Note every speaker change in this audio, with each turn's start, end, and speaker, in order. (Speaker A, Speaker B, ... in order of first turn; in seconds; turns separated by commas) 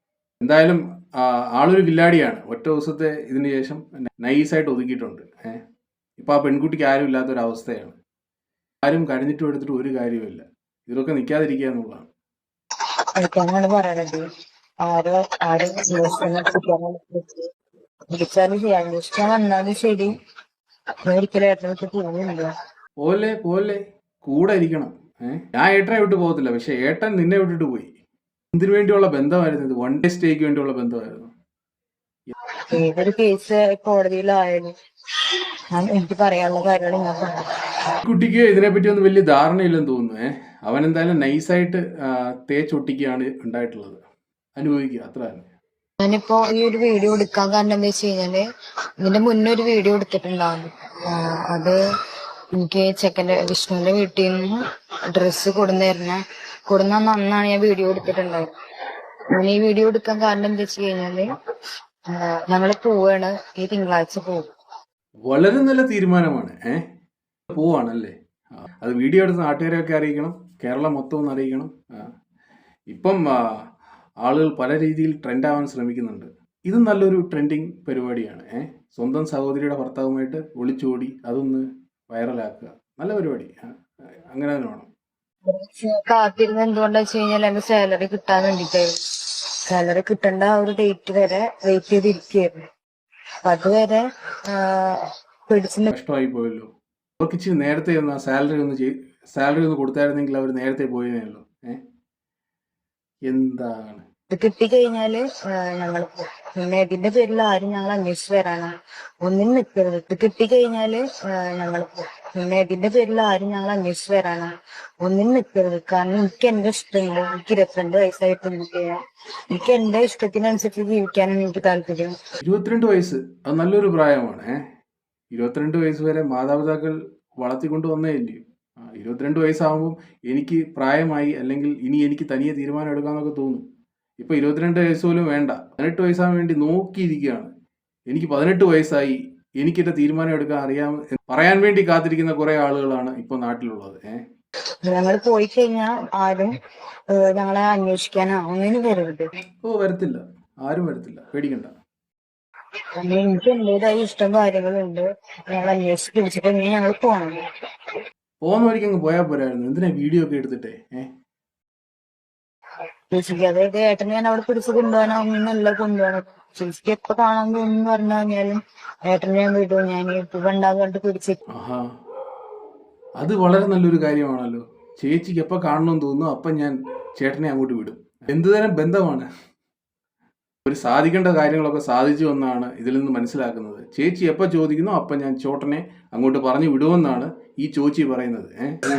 Speaker A: 0.4-5.6, Speaker A: 6.2-8.0, Speaker A: 8.8-12.1, Speaker B: 13.2-14.2, Speaker B: 14.8-17.4, Speaker B: 18.1-20.2, Speaker B: 21.1-22.5, Speaker A: 23.0-27.9, Speaker A: 28.5-31.3, Speaker B: 32.7-34.7, Speaker B: 35.7-37.5, Speaker A: 38.0-44.0, Speaker A: 44.6-45.5, Speaker B: 46.0-48.4, Speaker B: 49.0-51.8, Speaker B: 52.5-54.5, Speaker B: 55.1-58.5, Speaker B: 59.3-61.3, Speaker B: 62.1-64.5, Speaker A: 65.3-66.8, Speaker A: 67.5-68.2, Speaker A: 68.7-72.1, Speaker A: 72.9-73.6, Speaker A: 74.2-83.7, Speaker A: 84.3-84.9, Speaker B: 85.5-88.9, Speaker B: 89.7-92.7, Speaker B: 93.5-95.9, Speaker A: 95.9-96.7, Speaker A: 97.2-101.8, Speaker A: 103.3-104.0, Speaker B: 104.3-108.7, Speaker B: 109.2-114.5, Speaker B: 115.0-118.9, Speaker B: 119.5-122.2, Speaker A: 122.4-124.6, Speaker A: 125.3-133.6, Speaker A: 134.2-137.5, Speaker A: 138.1-144.2, Speaker B: 144.9-146.6, Speaker B: 147.1-149.3, Speaker A: 149.6-151.7, Speaker B: 153.0-157.4, Speaker A: 158.4-161.1, Speaker B: 163.1-171.4, Speaker A: 171.5-171.9, Speaker A: 173.2-179.3, Speaker A: 180.7-188.7